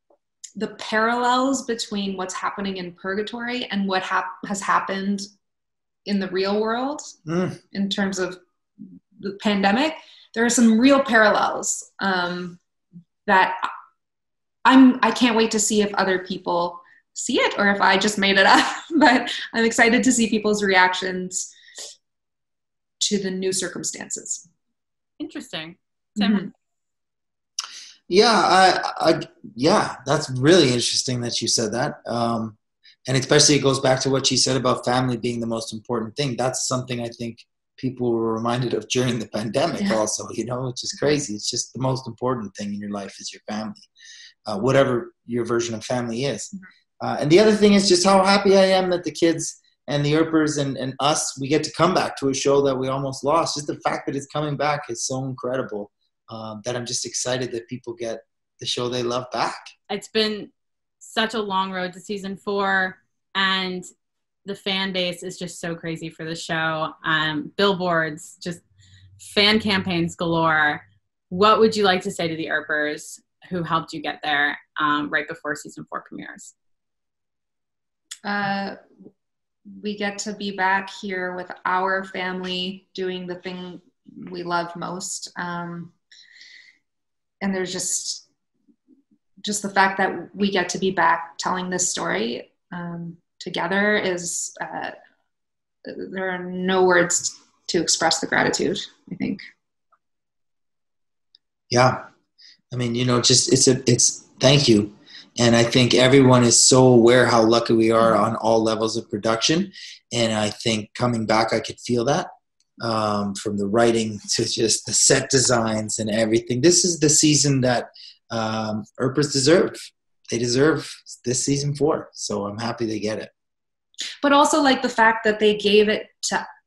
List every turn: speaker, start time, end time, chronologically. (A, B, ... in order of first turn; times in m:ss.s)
0:00.6-0:05.3 A
0:06.1-0:07.1 A
0:07.3-0:07.6 B
0:07.7-0:08.4 A
0:09.2-0:12.6 A
0:13.3-0:13.6 A
0:14.6-0:21.5 A
0:23.0-0:24.5 A
0:25.2-0:26.5 C
0:26.2-0:26.5 A
0:28.1-0:43.9 B
0:44.5-0:59.7 B
0:59.9-1:03.9 C
1:04.4-1:08.6 C
1:09.2-1:16.5 C
1:18.2-1:18.8 A
1:19.7-1:25.9 A
1:27.4-1:28.3 A
1:29.4-1:34.9 A
1:35.9-1:39.4 A
1:41.7-1:42.0 B
1:42.7-2:03.3 B
2:04.2-2:06.4 A